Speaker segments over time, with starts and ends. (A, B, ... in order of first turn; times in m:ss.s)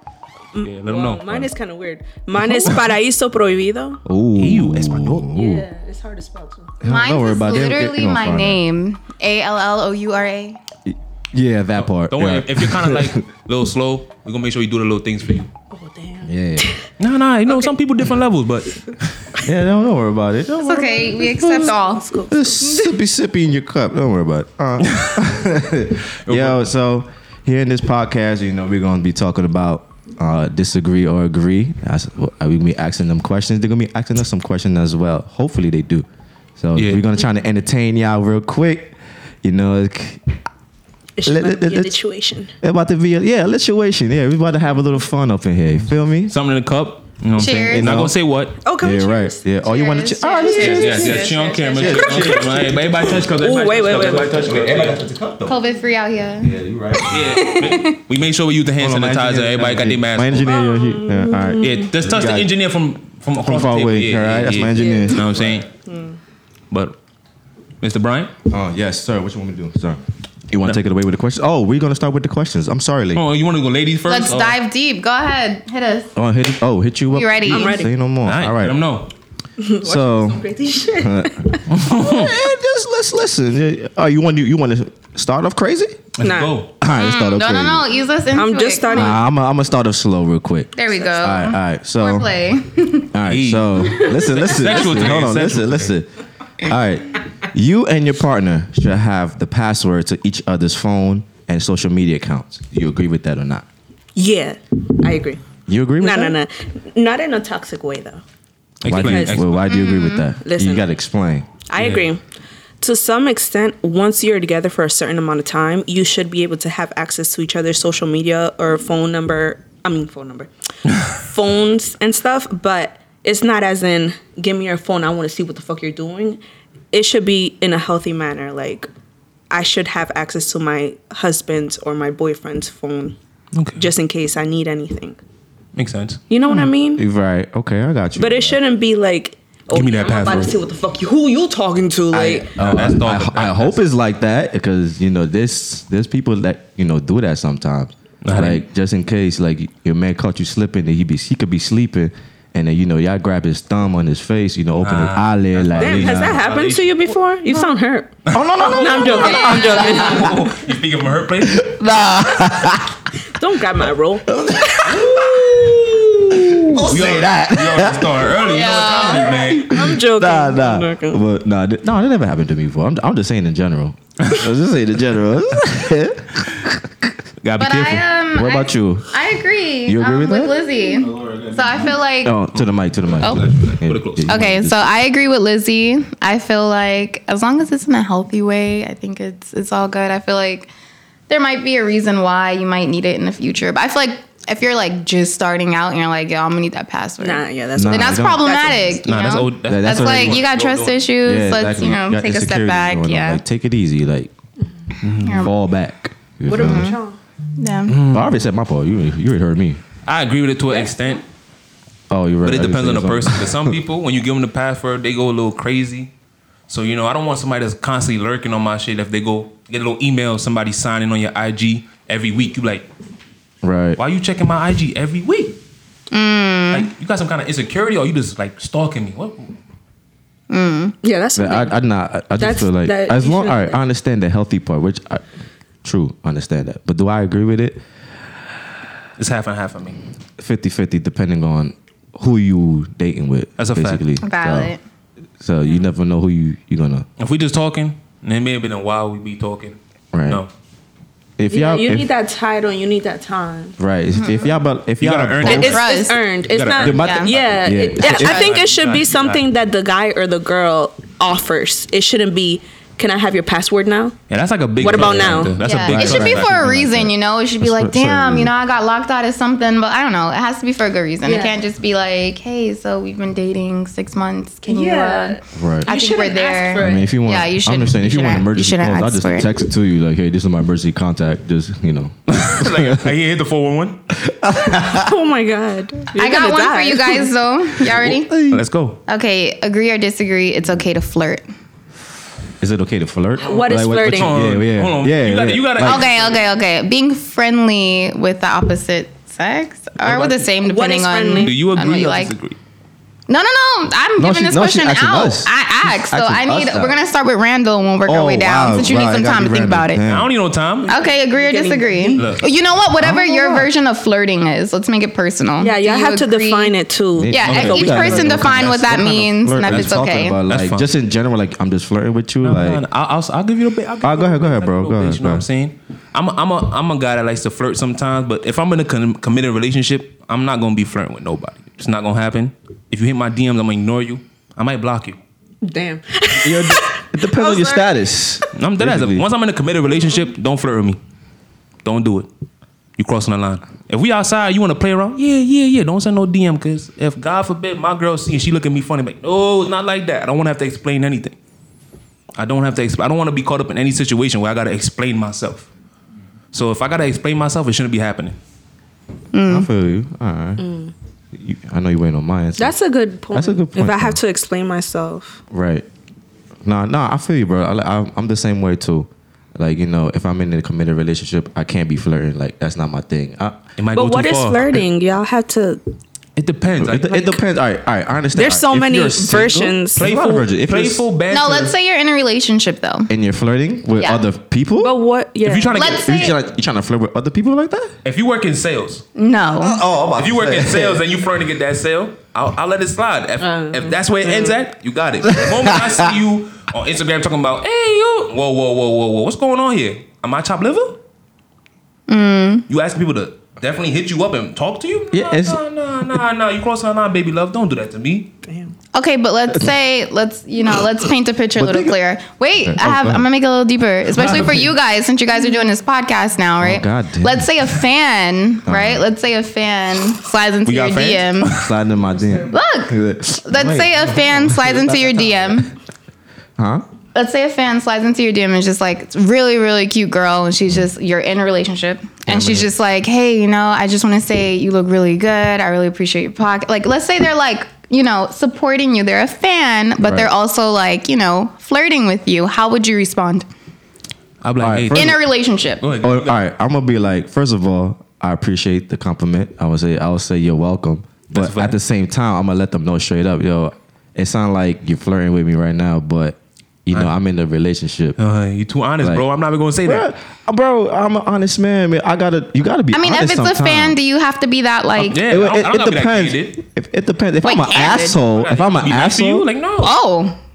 0:00.5-0:04.0 A
0:00.6-0:01.5 B
0:02.4-0:02.8 B
0:04.0-0:05.6 C
0:04.4-0:05.4 B
0:05.3-0:06.8 A
0:06.8-0:08.6 C
0:06.8-0:10.6 D
0:10.8-0:13.2 C
0:11.8-0:15.5 B
0:15.7-0:16.8 A
0:16.2-0:16.7 C
0:17.0-0:19.3 B
0:17.5-0:17.7 A
0:19.4-0:21.8 C
0:20.6-0:22.1 D
0:21.3-0:22.9 A
0:22.3-0:36.0 C
0:24.8-0:25.2 B
0:26.2-0:26.7 B
0:36.6-0:40.4 C
0:36.8-0:37.0 B
0:41.2-0:42.5 A
0:41.2-0:42.0 C
0:42.6-0:46.3 C
0:46.3-0:48.6 B
0:47.4-0:47.9 D
0:47.7-0:48.2 C
0:48.6-0:52.6 A
0:48.8-0:55.6 C
0:50.3-0:51.7 D
0:50.6-0:55.0 B
0:53.3-0:54.4 A
0:55.5-0:58.0 D
0:56.4-0:57.4 C
0:57.1-1:00.7 B
0:58.8-1:02.5 C
1:00.4-1:01.9 A
1:01.6-1:05.7 B
1:03.4-1:05.6 C
1:04.7-1:05.2 A
1:05.8-1:06.2 A
1:06.7-1:07.0 B
1:07.8-1:08.3 B
1:08.5-1:13.2 C
1:13.1-1:14.6 B
1:14.1-1:16.1 D
1:16.2-1:18.8 C
1:17.1-1:17.7 D
1:17.5-1:17.9 A
1:18.2-1:19.1 B
1:19.6-1:21.6 A
1:19.8-1:26.1 C
1:21.7-1:22.3 B
1:26.2-1:26.7 B
1:26.2-1:26.6 A
1:26.8-1:27.9 C
1:26.9-1:29.2 D
1:28.3-1:29.2 A
1:28.9-1:32.3 C
1:30.7-1:33.1 D
1:33.1-1:36.1 C
1:33.2-1:35.9 B
1:36.6-1:43.6 C
1:44.1-1:45.4 A
1:45.7-1:46.4 C
1:46.0-1:48.2 A
1:48.8-1:49.5 B
1:48.8-1:51.5 C
1:48.9-1:49.6 A
1:49.6-1:50.3 D
1:50.4-1:50.9 A
1:51.7-1:52.2 A
1:51.8-1:52.1 B
1:52.8-2:06.4 A
2:06.9-2:08.9 A
2:09.5-2:13.2 A
2:13.5-2:13.8 B
2:13.8-2:15.2 A
2:15.7-2:16.2 B
2:16.3-2:17.0 A
2:16.5-2:18.6 C
2:18.2-2:22.5 A
2:19.7-2:20.6 B
2:22.1-2:36.4 C
2:22.6-2:23.8 B
2:28.2-2:28.6 B
2:34.8-2:37.2 B
2:35.8-2:40.4 A
2:38.2-2:39.1 B
2:38.3-2:40.6 C
2:39.0-2:40.3 D
2:39.8-2:41.7 B
2:41.4-2:43.1 C
2:43.3-2:46.5 A
2:44.3-2:48.7 C
2:46.7-2:50.0 B
2:48.4-2:49.6 D
2:49.2-2:51.2 A
2:49.4-2:57.1 C
2:54.2-2:54.4 B
2:57.4-2:58.0 B
2:57.6-3:02.4 D
2:58.3-2:59.1 C
2:59.9-3:01.2 C
3:01.0-3:01.9 B
3:02.2-3:04.9 C
3:02.6-3:04.4 B
3:03.2-3:03.5 D
3:04.3-3:10.7 D
3:11.3-3:23.4 D
3:17.2-3:19.0 A
3:17.7-3:18.7 C
3:19.0-3:21.1 B
3:19.6-3:20.4 C
3:21.2-3:24.3 C
3:25.0-3:25.5 B
3:25.2-3:25.5 D
3:25.2-3:27.0 C
3:26.5-3:27.2 A
3:26.5-3:26.9 D
3:27.6-3:28.0 D
3:27.9-3:28.3 B
3:28.0-3:29.8 C
3:30.0-3:31.2 B
3:30.7-3:31.2 A
3:32.1-3:33.8 C
3:32.4-3:36.1 B
3:36.7-3:42.9 B
3:43.6-3:44.0 C
3:44.0-3:45.6 B
3:46.1-3:46.9 D
3:46.7-3:49.5 B
3:50.5-3:50.9 D
3:51.0-3:51.7 A
3:51.4-3:55.2 C
3:52.4-3:53.8 A
3:55.8-3:57.8 C
3:59.2-4:00.0 B
4:00.4-4:04.7 C
4:03.6-4:04.0 B
4:04.2-4:04.8 D
4:05.4-4:07.0 C
4:07.2-4:10.5 B
4:10.1-4:10.4 C
4:11.4-4:12.1 C
4:11.5-4:13.8 A
4:13.8-4:15.8 C
4:14.2-4:14.5 D
4:15.0-4:15.9 B
4:15.4-4:24.2 A
4:15.4-4:16.2 D
4:16.4-4:19.4 B
4:16.8-4:18.5 C
4:16.9-4:17.3 D
4:18.2-4:18.5 D
4:24.3-4:27.1 B
4:24.8-4:26.0 A
4:24.8-4:26.8 C
4:25.6-4:39.5 D
4:27.6-4:28.5 C
4:31.2-4:31.6 A
4:34.7-4:37.1 A
4:35.5-4:35.9 C
4:36.8-4:43.1 C
4:42.3-4:44.0 B
4:44.1-4:45.1 C
4:44.9-4:47.3 A
4:46.1-4:48.3 D
4:47.8-4:48.6 C
4:48.4-4:49.0 B
4:49.1-4:51.4 D
4:52.6-4:56.0 C
4:53.4-4:54.4 A
4:54.1-4:56.4 B
4:55.8-5:02.3 D
5:00.0-5:00.3 B
5:00.5-5:01.5 A
5:01.4-5:02.6 B
5:03.3-5:10.0 D
5:04.2-5:07.0 C
5:08.0-5:10.3 C
5:10.0-5:10.9 B
5:10.8-5:12.3 A
5:10.9-5:16.7 D
5:12.2-5:12.4 B
5:13.0-5:13.6 C
5:15.6-5:18.0 A
5:17.2-5:22.8 C
5:17.3-5:20.4 D
5:17.4-5:18.8 B
5:19.6-5:20.9 B
5:22.4-5:35.2 B
5:24.0-5:25.4 C
5:35.6-5:37.9 A
5:36.3-5:39.2 C
5:38.6-5:41.0 B
5:41.8-5:42.3 B
5:43.0-5:51.4 B
5:52.4-5:55.7 B
5:56.5-5:58.4 B
5:59.3-5:59.7 D
5:59.4-6:00.7 C
6:00.6-6:00.9 A
6:01.3-6:02.7 C
6:02.6-6:05.4 A
6:03.3-6:04.2 C
6:05.5-6:05.8 C
6:06.6-6:13.6 C
6:13.8-6:14.8 B
6:13.9-6:15.8 A
6:16.4-6:17.3 B
6:16.7-6:21.0 C
6:18.3-6:20.1 A
6:20.0-6:21.7 B
6:21.3-6:23.1 D
6:23.1-6:24.9 C
6:24.0-6:24.2 D
6:24.8-6:25.9 A
6:25.4-6:26.0 B
6:25.7-6:26.4 D
6:25.9-6:27.9 C
6:28.0-6:29.0 B
6:29.2-6:29.8 D
6:29.6-6:31.0 C
6:30.2-6:41.0 B
6:33.4-6:34.6 A
6:35.3-6:36.1 C
6:42.1-6:42.6 D
6:42.7-6:48.3 B
6:45.1-6:45.6 C
6:48.4-6:48.7 A
6:48.9-7:01.5 D
6:51.6-6:52.0 C
6:52.6-6:53.2 C
6:54.2-6:54.7 C
6:56.6-6:57.5 C
6:58.6-6:59.0 C
7:00.6-7:01.7 B
7:01.6-7:05.5 C
7:02.5-7:05.7 D
7:06.6-7:06.8 C
7:07.1-7:23.5 D
7:12.3-7:12.7 C
7:20.0-7:20.3 C
7:24.4-7:25.2 B
7:24.6-7:25.2 C
7:24.9-7:25.8 D
7:25.8-7:26.4 B
7:26.0-7:38.2 C
7:31.3-7:31.8 B
7:38.2-7:40.1 B
7:39.8-7:44.0 C
7:42.9-7:45.2 D
7:45.0-7:46.6 B
7:45.2-7:49.4 C
7:47.4-7:48.2 D
7:48.3-7:49.9 B
7:49.8-7:50.4 D